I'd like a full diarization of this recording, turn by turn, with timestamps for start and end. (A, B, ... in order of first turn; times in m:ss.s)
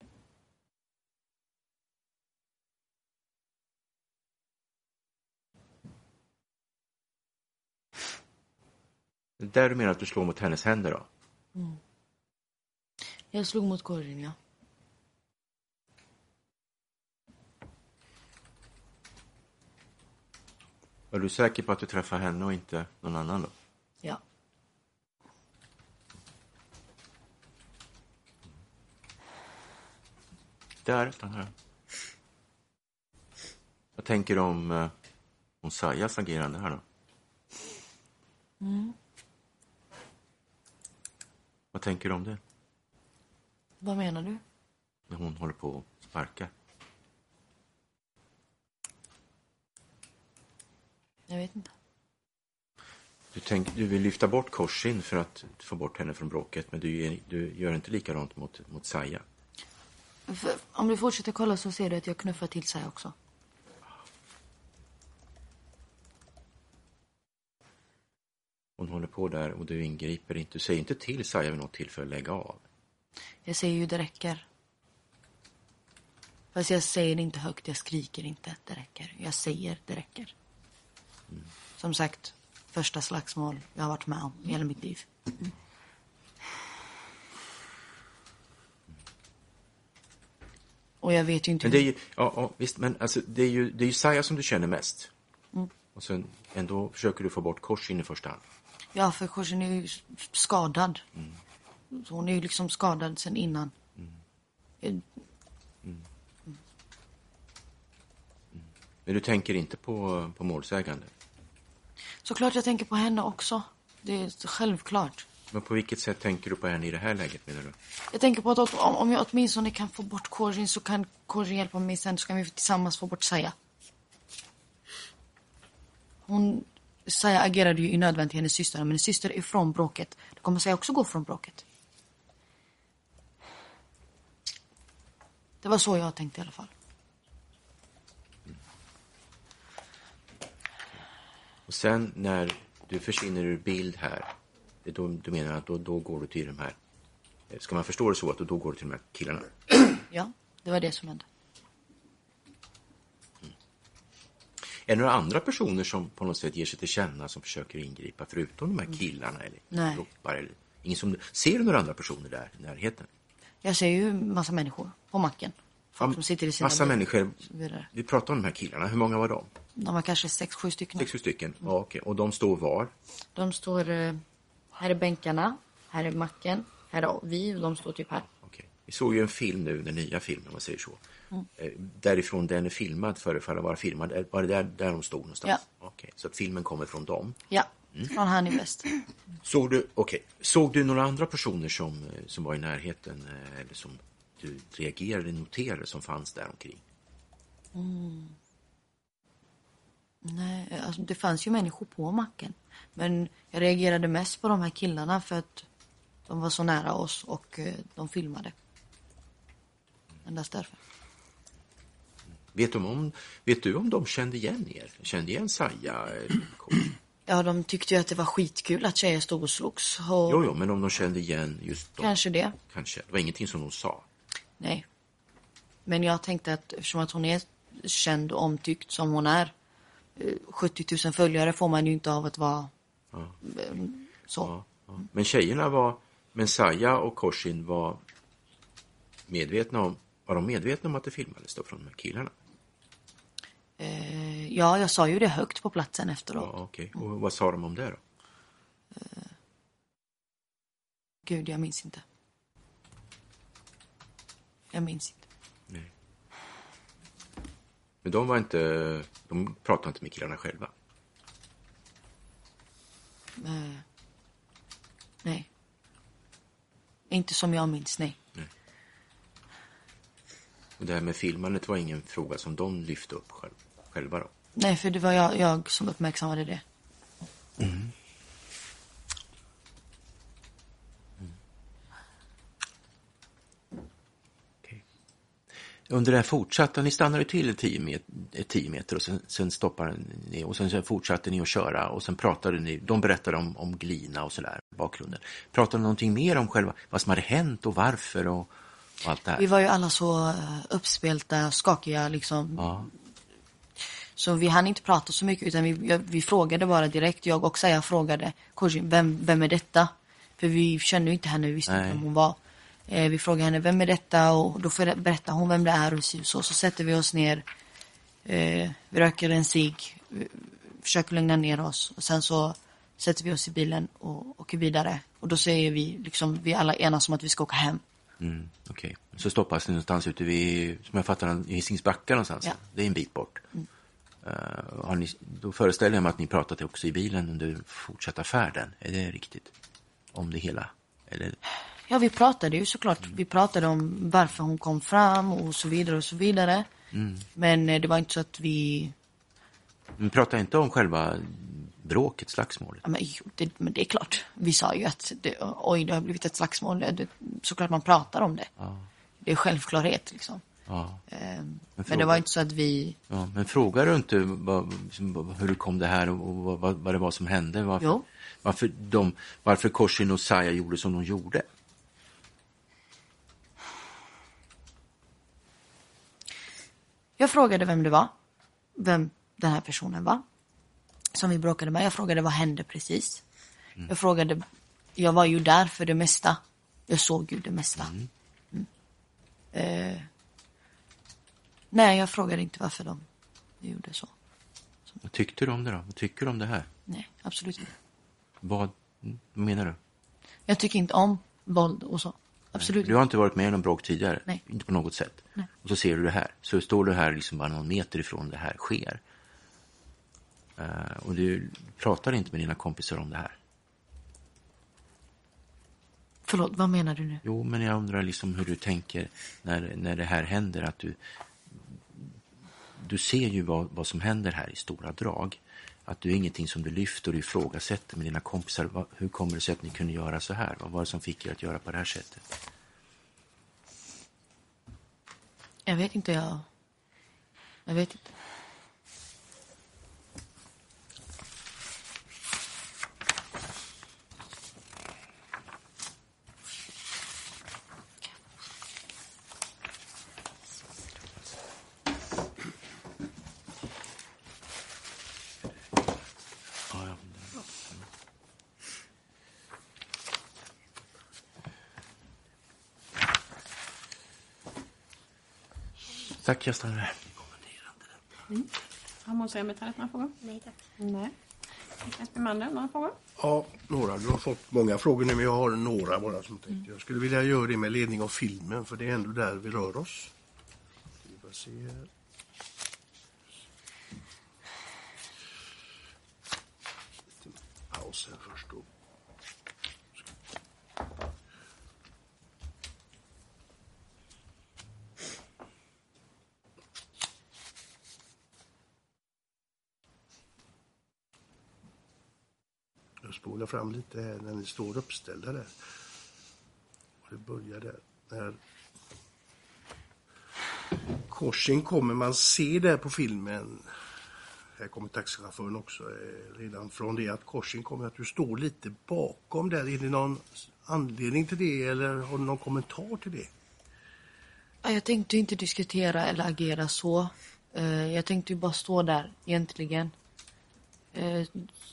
0:09.4-0:11.1 A
0:13.3-0:14.4 B
0:21.1-0:23.5 A
0:30.8-0:31.5 A
0:34.0-0:34.9 A
0:35.6-0:36.8 A
0:38.6-0:39.0 B
0:41.7-0:42.4 A
0:43.8-0:44.4 B
0:45.1-0:46.5 A
0:51.3-0:51.7 B
0:53.3-0:59.2 A
1:00.3-1:03.2 B
1:08.8-1:12.6 A
1:13.4-1:14.4 B
1:16.5-1:20.3 B
1:21.8-1:25.1 B
1:31.0-1:31.8 B
1:31.6-1:35.1 A
1:35.9-1:38.4 A
1:39.0-1:41.0 B
1:41.9-1:43.7 B
1:44.8-1:45.1 B
1:48.5-1:51.1 A
1:52.2-1:55.3 B
1:55.5-1:57.8 A
1:58.1-2:03.6 B
2:06.3-2:11.6 B
2:15.6-2:16.7 B
2:21.7-2:24.3 A
2:24.8-2:26.8 A
2:27.5-2:29.8 A
2:30.1-2:31.2 B
2:34.8-2:43.1 A
2:39.7-2:40.0 B
2:43.6-2:47.9 B
2:46.0-2:47.4 A
2:47.9-2:49.5 A
2:49.8-2:51.1 B
2:51.0-2:52.9 A
2:53.4-2:54.2 B
2:54.8-2:58.3 B
2:58.4-3:01.0 A
3:01.6-3:07.4 A
3:07.5-3:09.0 B
3:09.4-3:16.8 A
3:17.8-3:18.4 B
3:20.2-3:25.7 B
3:26.3-3:28.5 B
3:30.2-3:30.8 B
3:32.5-3:36.9 A
3:37.3-3:40.4 B
3:40.3-3:42.1 A
3:42.0-3:42.6 B
3:42.7-3:44.1 A
3:44.6-3:44.8 B
3:45.9-3:49.5 B
3:50.2-3:52.7 B
3:53.4-3:54.5 B
3:54.4-3:58.0 A
3:59.3-4:02.4 A
4:03.8-4:06.5 B
4:06.4-4:08.0 A
4:09.0-4:09.3 B
4:11.3-4:12.0 B
4:14.7-4:15.2 B
4:18.0-4:20.7 A
4:23.4-4:23.8 B
4:27.1-4:28.2 B
4:30.8-4:34.3 A
4:34.6-4:36.6 B
4:37.6-4:37.9 A
4:45.9-4:59.5 A
4:59.4-5:02.9 B
5:02.6-5:02.9 A
5:04.2-5:12.4 B
5:11.7-5:12.0 A
5:12.9-5:17.4 B
5:18.2-5:27.8 B
5:28.2-5:33.4 A
5:34.2-5:39.5 A
5:40.1-5:41.4 A
5:41.9-5:46.7 B
5:46.9-5:47.3 A
5:47.4-5:48.9 B
5:50.0-5:52.8 A
5:52.8-5:58.5 B
5:58.6-5:58.9 A
5:59.2-6:00.4 B
6:00.7-6:01.0 A
6:01.1-6:03.0 B
6:01.8-6:02.2 A
6:03.1-6:11.5 A
6:17.2-6:18.1 B
6:18.8-6:20.2 B
6:21.1-6:23.2 B
6:23.9-6:24.4 B
6:25.0-6:27.9 B
6:27.8-6:28.1 A
6:29.5-6:30.1 B
6:31.7-6:33.0 B
6:33.6-6:34.1 B
6:35.0-6:36.7 A
6:36.9-6:37.7 B
6:38.4-6:39.8 A
6:40.5-6:43.0 B
6:42.6-6:49.0 A
6:50.6-6:53.4 A
6:56.3-6:57.2 B
6:57.2-7:01.0 A
7:01.5-7:02.1 A
7:02.8-7:12.3 A
7:15.7-7:16.5 B
7:17.7-7:18.1 B
7:36.7-7:37.8 A
7:46.1-7:47.1 A
7:49.0-7:51.1 C
7:51.8-7:53.0 C
7:53.2-8:00.1 D
8:01.0-8:01.9 D
8:07.2-8:08.7 D
8:23.0-8:25.5 D
8:27.0-8:28.4 D
8:31.1-8:33.7 D
8:34.6-8:43.3 D
8:44.6-8:49.9 B
8:50.9-8:51.5 B